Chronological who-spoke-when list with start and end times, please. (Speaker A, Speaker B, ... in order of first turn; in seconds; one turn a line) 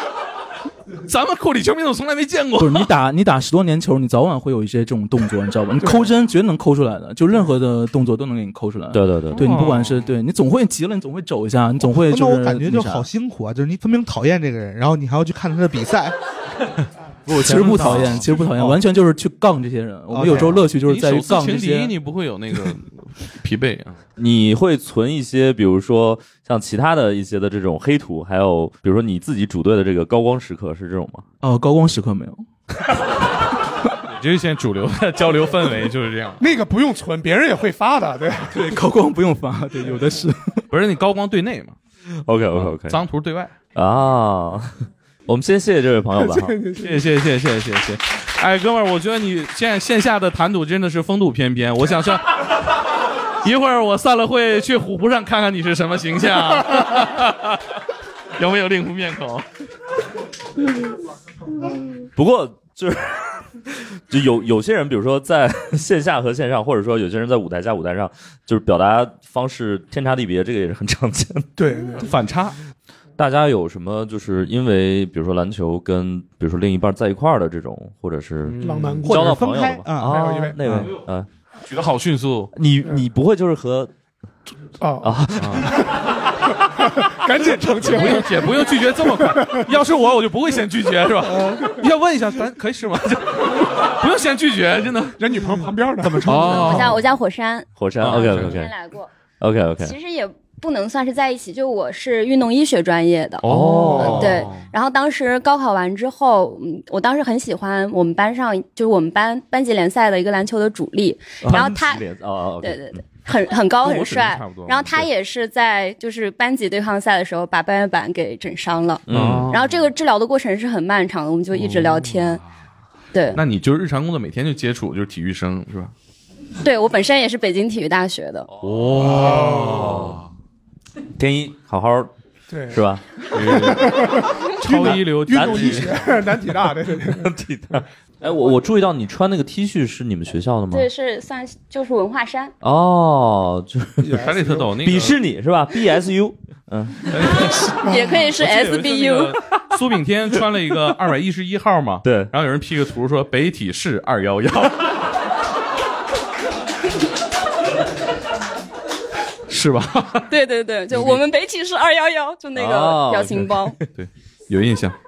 Speaker A: 1.0-2.9
Speaker B: 2.6-13.1
Speaker C: 5.8-6.1
Speaker D: 8.9-9.5
Speaker A: 9.4-10.1
Speaker E: 11.8-16.1
Speaker D: 17.3-18.2
Speaker B: 17.3-21.9
Speaker A: 17.5-18.2
Speaker E: 18.4-18.8
Speaker E: 20.1-20.6
Speaker A: 20.9-24.0
Speaker D: 24.2-31.2
Speaker B: 31.4-32.4
Speaker A: 34.1-36.4
Speaker C: 36.4-38.7
Speaker B: 38.5-40.7
Speaker A: 40.7-41.8
Speaker D: 42.2-43.0
Speaker A: 42.5-43.5
Speaker D: 43.7-46.6
Speaker C: 46.2-47.0
Speaker A: 46.8-52.6
Speaker A: 53.4-57.6
Speaker A: 58.4-59.5
Speaker D: 62.1-71.5
Speaker C: 71.6-72.1
Speaker A: 72.0-72.6
Speaker D: 73.2-81.3
Speaker A: 78.5-79.0
Speaker C: 78.6-79.4
Speaker E: 79.0-80.9
Speaker C: 80.0-80.6
Speaker A: 81.7-82.5
Speaker D: 82.5-83.9
Speaker C: 84.8-89.7
Speaker D: 85.0-85.8
Speaker A: 85.4-85.7
Speaker A: 87.8-95.2
Speaker C: 91.4-91.7
Speaker C: 95.2-96.8
Speaker A: 96.0-97.0
Speaker F: 96.3-99.1
Speaker D: 97.8-98.7
Speaker A: 98.0-98.5
Speaker D: 99.4-100.0
Speaker F: 99.8-103.4
Speaker A: 103.4-104.6
Speaker D: 103.4-104.5
Speaker C: 104.0-104.3
Speaker F: 104.1-112.0
Speaker D: 111.5-113.0
Speaker F: 112.6-122.4
Speaker A: 113.8-115.1
Speaker D: 119.1-119.5
Speaker A: 119.1-119.8
Speaker A: 121.5-122.4
Speaker F: 123.1-123.4
Speaker A: 123.3-125.9
Speaker F: 126.6-128.5
Speaker A: 128.6-130.3
Speaker C: 129.0-130.1
Speaker D: 129.7-130.2
Speaker D: 131.2-132.1
Speaker C: 132.5-132.8
Speaker D: 132.7-133.7
Speaker A: 133.3-134.1
Speaker C: 133.5-137.3
Speaker A: 134.6-136.0
Speaker D: 134.8-136.2
Speaker D: 136.9-140.9
Speaker F: 140.7-142.5
Speaker D: 142.6-144.2
Speaker C: 144.0-144.8
Speaker A: 144.1-145.2
Speaker D: 144.8-147.1
Speaker A: 147.1-154.9
Speaker C: 147.6-148.2
Speaker F: 147.8-149.4
Speaker D: 152.0-152.3
Speaker A: 159.5-160.3
Speaker F: 160.3-163.8
Speaker A: 160.9-161.2
Speaker D: 162.6-163.7
Speaker A: 163.9-165.0